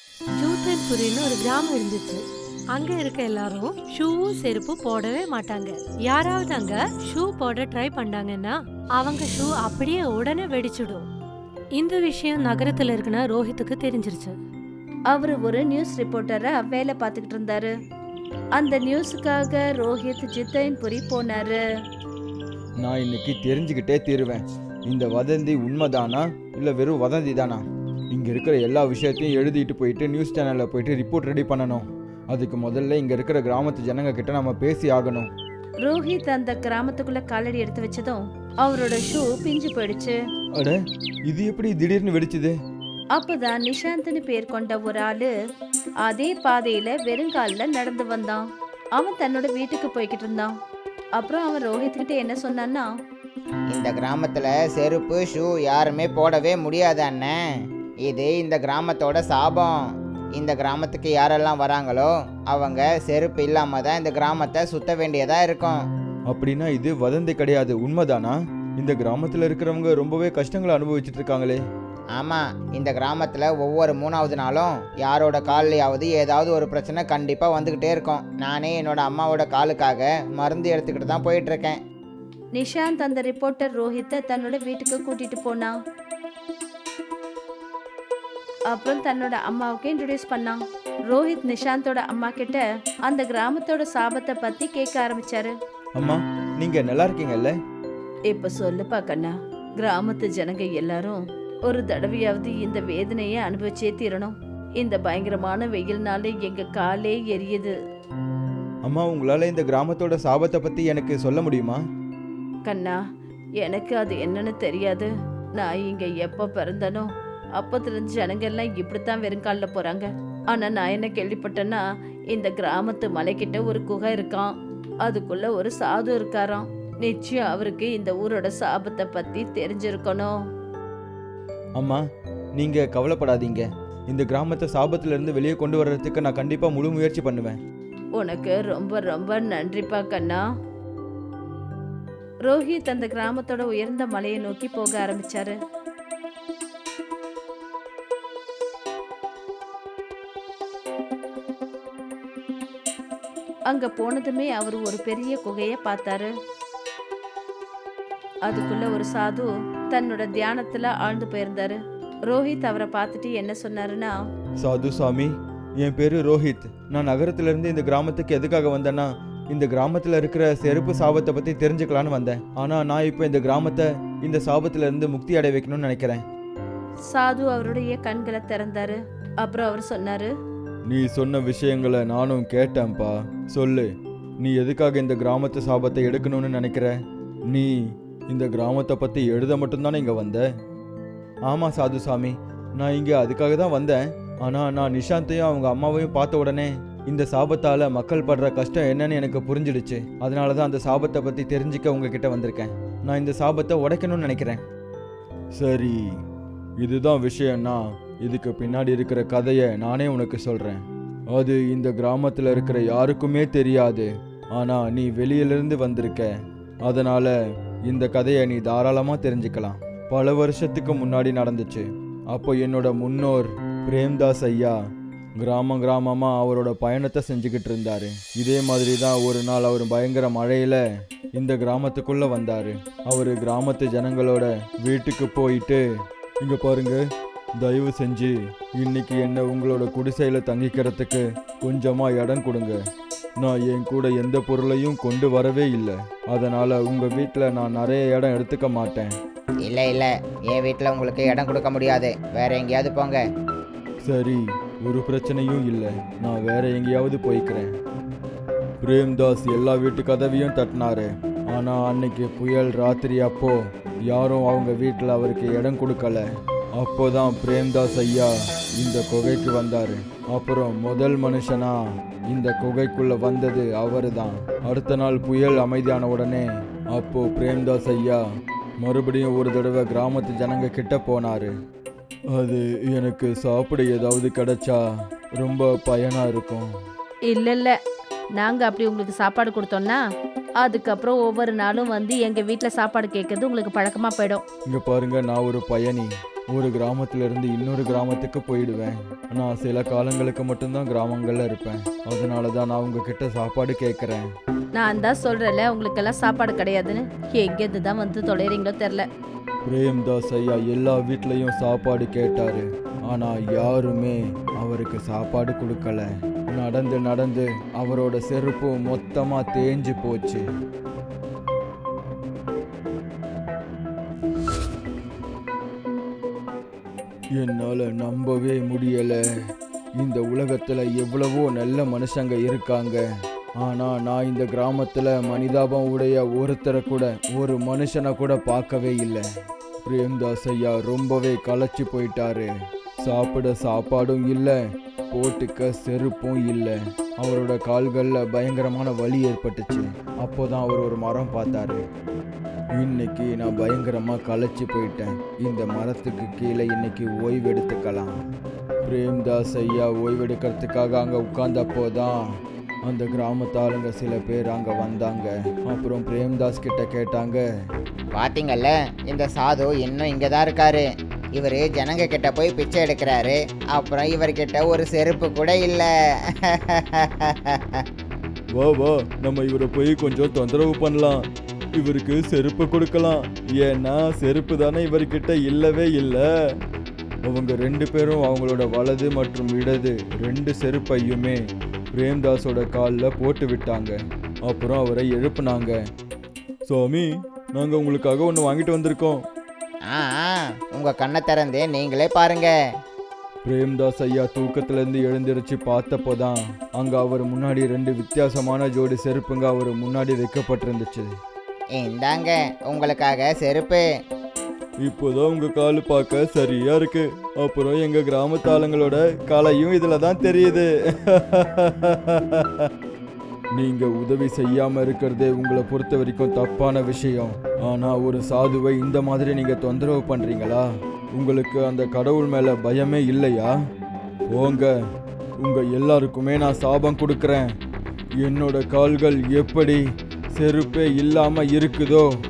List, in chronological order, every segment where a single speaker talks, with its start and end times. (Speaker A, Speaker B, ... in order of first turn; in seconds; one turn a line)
Speaker A: 0.4-11.1
Speaker A: 11.7-14.4
Speaker B: 15.1-17.7
Speaker B: 18.6-21.6
Speaker C: 22.8-35.3
Speaker B: 35.8-40.2
Speaker C: 40.6-42.5
Speaker B: 43.2-45.3
Speaker B: 46.0-48.5
Speaker B: 49.0-50.5
Speaker B: 51.2-52.9
Speaker D: 53.7-57.4
Speaker D: 58.1-59.8
Speaker D: 60.4-65.8
Speaker C: 66.3-71.6
Speaker D: 72.1-81.8
Speaker B: 82.5-85.8
Speaker B: 88.7-95.5
Speaker C: 96.0-97.5
Speaker B: 98.3-107.7
Speaker C: 108.8-111.8
Speaker B: 112.7-113.0
Speaker B: 113.6-124.5
Speaker B: 125.0-130.3
Speaker C: 131.8-132.0
Speaker C: 132.6-137.6
Speaker B: 138.2-140.4
Speaker B: 142.5-145.6
Speaker B: 153.7-156.3
Speaker B: 158.5-164.1
Speaker C: 164.6-176.2
Speaker B: 177.1-180.3
Speaker C: 180.9-186.9
Speaker C: 188.3-190.5
Speaker C: 191.5-204.6
Speaker C: 205.6-206.2
Speaker C: 206.8-216.3
Speaker C: 216.8-217.3
Speaker C: 217.9-224.8
Speaker C: 225.4-230.8
Speaker C: 231.4-235.8
Speaker C: 236.4-237.0
Speaker C: 237.6-242.8
Speaker C: 243.4-249.1
Speaker D: 249.6-253.2
Speaker C: 254.0-257.7
Speaker C: 258.8-266.3
Speaker C: 266.8-271.8
Speaker C: 272.3-278.2
Speaker C: 278.8-281.5
Speaker C: 282.3-284.8
Speaker C: 285.4-286.7
Speaker B: 287.3-287.8
Speaker B: 288.4-290.0
Speaker B: 290.6-294.4
Speaker C: 294.7-304.3
Speaker B: 304.8-309.1
Speaker C: 309.6-320.4
Speaker C: 327.4-329.2
Speaker C: 330.0-333.0
Speaker C: 333.6-339.2
Speaker C: 339.9-342.5
Speaker C: 343.0-344.6
Speaker C: 345.1-351.8
Speaker C: 352.7-358.1
Speaker C: 358.8-362.2
Speaker C: 362.9-367.4
Speaker D: 368.1-377.8
Speaker C: 378.5-381.2
Speaker C: 381.8-386.3
Speaker C: 387.2-391.4
Speaker C: 391.9-395.8
Speaker C: 396.7-399.2
Speaker D: 399.9-402.5
Speaker C: 403.4-411.1
Speaker D: 411.8-413.8
Speaker C: 414.8-422.7
Speaker C: 423.6-433.6
Speaker C: 434.3-434.7
Speaker C: 435.4-437.5
Speaker C: 438.2-439.8
Speaker C: 440.4-442.1